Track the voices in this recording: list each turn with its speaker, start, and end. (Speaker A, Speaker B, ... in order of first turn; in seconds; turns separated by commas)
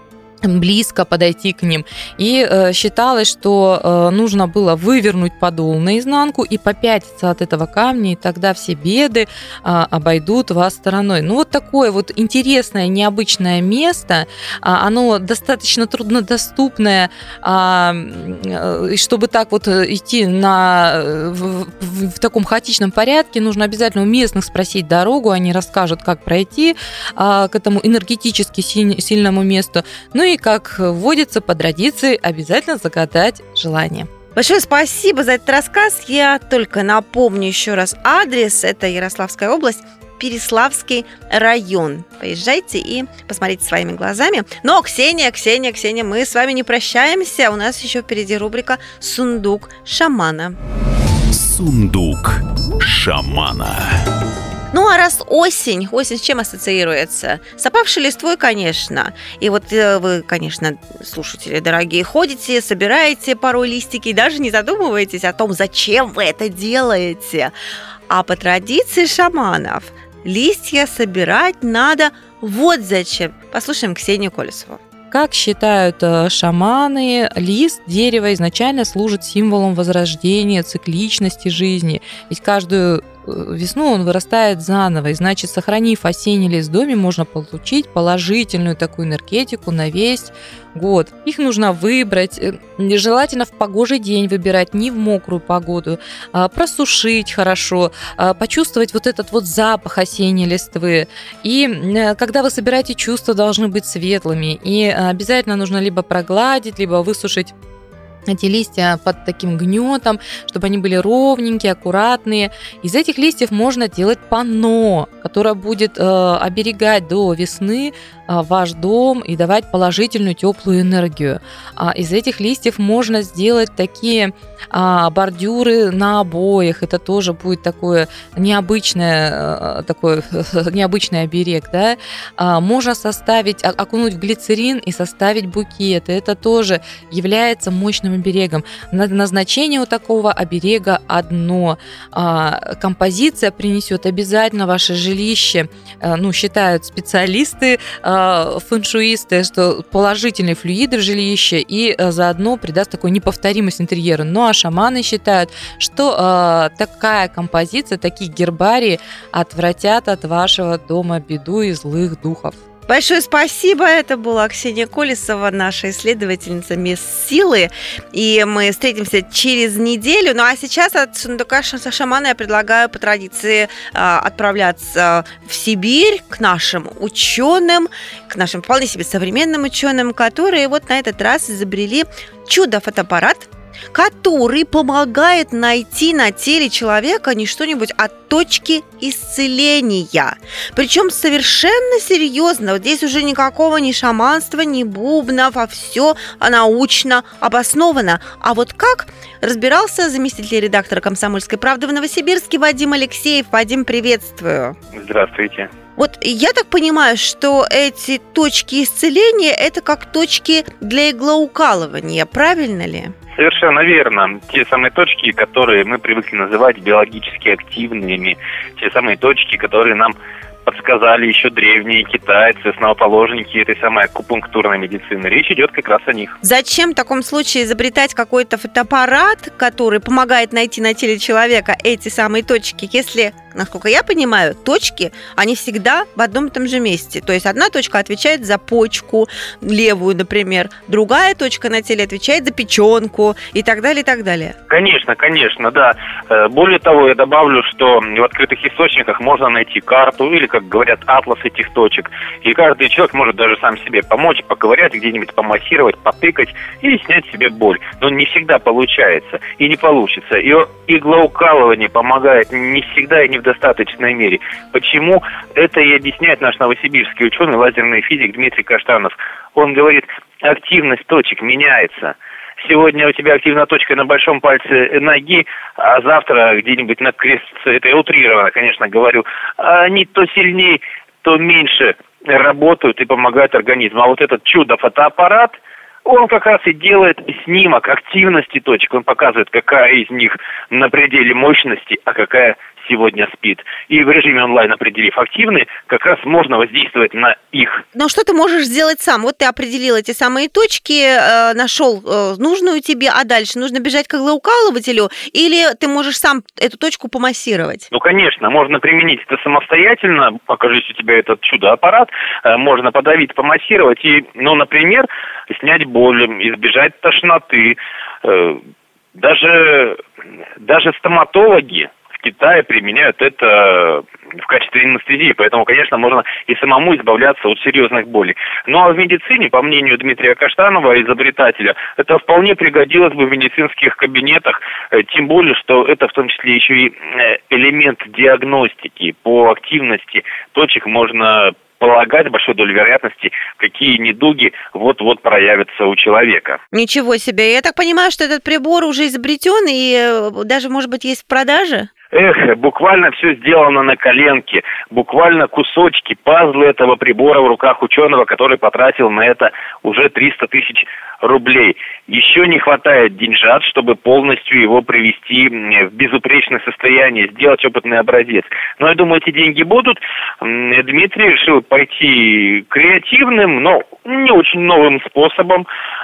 Speaker A: 0.4-34.1, Speaker B: 34.3-50.6, Speaker C: 51.3-54.0, Speaker B: 54.7-67.5, Speaker B: 68.1-74.8, Speaker A: 75.1-107.5, Speaker A: 108.3-162.6, Speaker B: 162.9-204.8, Speaker D: 204.9-205.7, Speaker B: 206.0-213.1, Speaker D: 213.4-226.3, Speaker B: 226.4-244.5, Speaker D: 244.7-297.8, Speaker B: 297.9-307.9, Speaker D: 307.9-318.6, Speaker D: 319.1-320.0, Speaker D: 320.6-346.6, Speaker B: 346.7-351.9, Speaker D: 352.1-375.6